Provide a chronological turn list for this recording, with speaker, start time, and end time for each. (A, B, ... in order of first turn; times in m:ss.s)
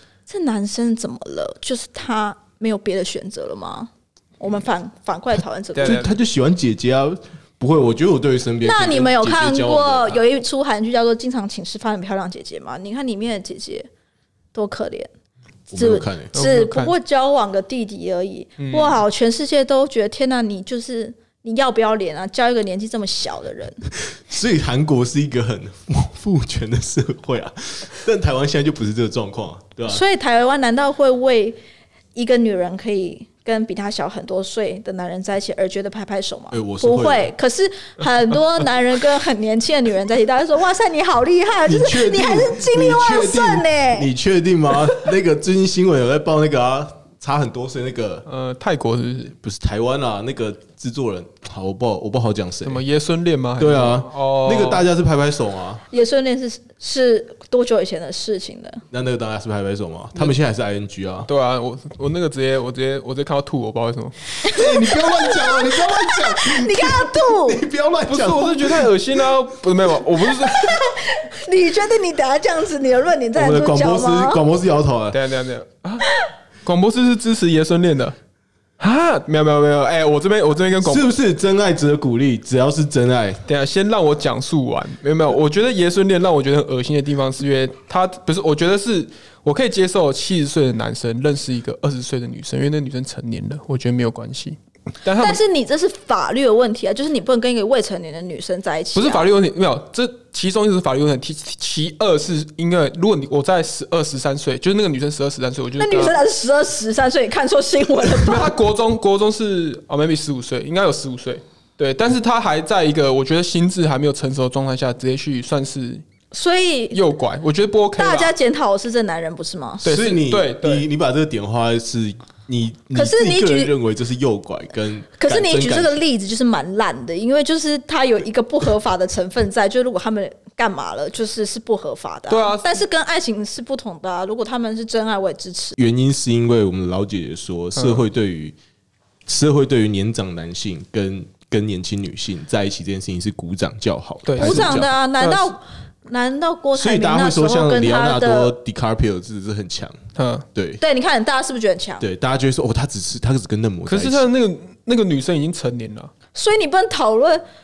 0:00.3-0:06.0 A
0:05.8-0:06.2 B
0:05.8-0:10.2 C
0:08.6-0:13.9 A
0:14.5-0:15.1 A
0:15.7-0:16.3 C
0:15.7-0:23.8 A
0:16.3-0:16.9 B
0:18.6-0:19.0 B
0:24.1-0:30.0 C
0:29.9-0:31.6 A
0:32.2-0:44.1 A
0:36.5-0:37.3 C
0:41.7-0:48.2 C
0:48.3-0:49.4 B
0:49.4-0:52.8 C
0:52.6-0:54.9 B
0:53.6-0:55.8 C
0:55.9-0:58.8 A
0:58.9-1:01.3 C
1:01.3-1:04.4 B
1:04.4-1:07.6 A
1:04.5-1:08.9 C
1:08.1-1:10.8 B
1:10.4-1:14.4 A
1:13.4-1:15.2 C
1:15.1-1:18.2 B
1:18.8-1:21.1 B
1:20.8-1:23.4 C
1:23.5-1:35.4 B
1:35.2-1:39.3 A
1:39.0-1:46.2 B
1:45.8-1:48.5 A
1:48.2-1:56.0 B
1:56.3-1:57.0 A
1:56.9-1:58.3 B
1:58.0-1:59.9 A
1:59.8-2:00.9 B
1:59.8-2:06.0 C
2:02.9-2:03.7 A
2:05.2-2:15.8 A
2:12.3-2:12.8 B
2:15.8-2:18.6 C
2:17.8-2:18.0 B
2:19.3-2:24.9 C
2:24.3-2:25.5 B
2:24.4-2:28.5 A
2:26.8-2:30.0 C
2:30.2-2:30.5 B
2:30.6-2:30.8 C
2:30.8-2:32.0 A
2:32.0-2:34.3 C
2:33.9-2:36.1 B
2:36.3-2:37.4 A